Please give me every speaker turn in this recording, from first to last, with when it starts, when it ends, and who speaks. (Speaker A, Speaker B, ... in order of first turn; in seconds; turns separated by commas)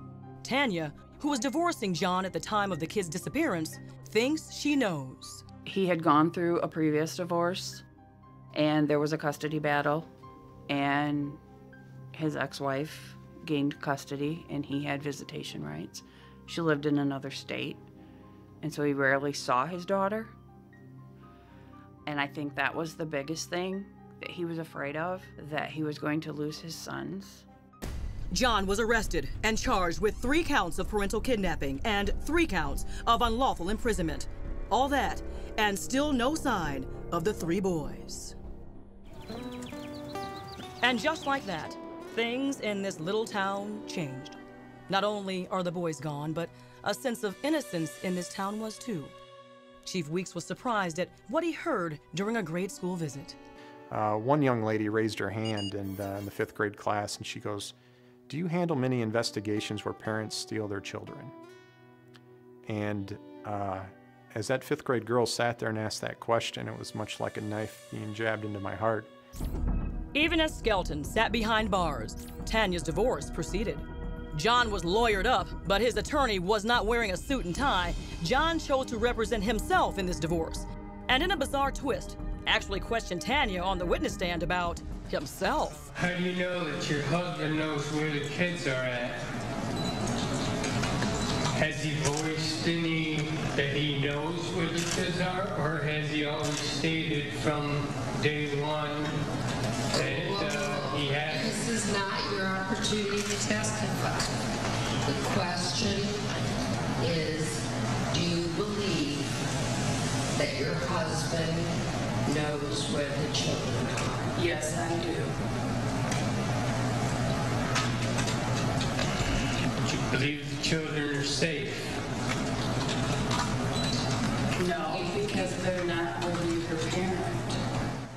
Speaker A: 0.4-5.4, Speaker B: 5.7-7.8, Speaker B: 8.5-10.1, Speaker B: 10.7-11.4, Speaker B: 12.1-17.8, Speaker B: 18.6-20.3, Speaker B: 22.1-27.4, Speaker A: 28.3-38.4, Speaker A: 40.8-49.1, Speaker A: 49.8-53.4, Speaker C: 53.9-57.7, Speaker C: 58.3-61.3, Speaker C: 62.6-69.1, Speaker A: 70.1-85.8, Speaker D: 85.9-89.2, Speaker D: 91.5-99.2, Speaker E: 99.9-104.3, Speaker D: 100.0-101.7, Speaker E: 105.0-106.2, Speaker E: 107.0-109.2, Speaker E: 110.3-114.8, Speaker B: 114.3-115.3, Speaker D: 119.8-122.0, Speaker B: 124.5-127.5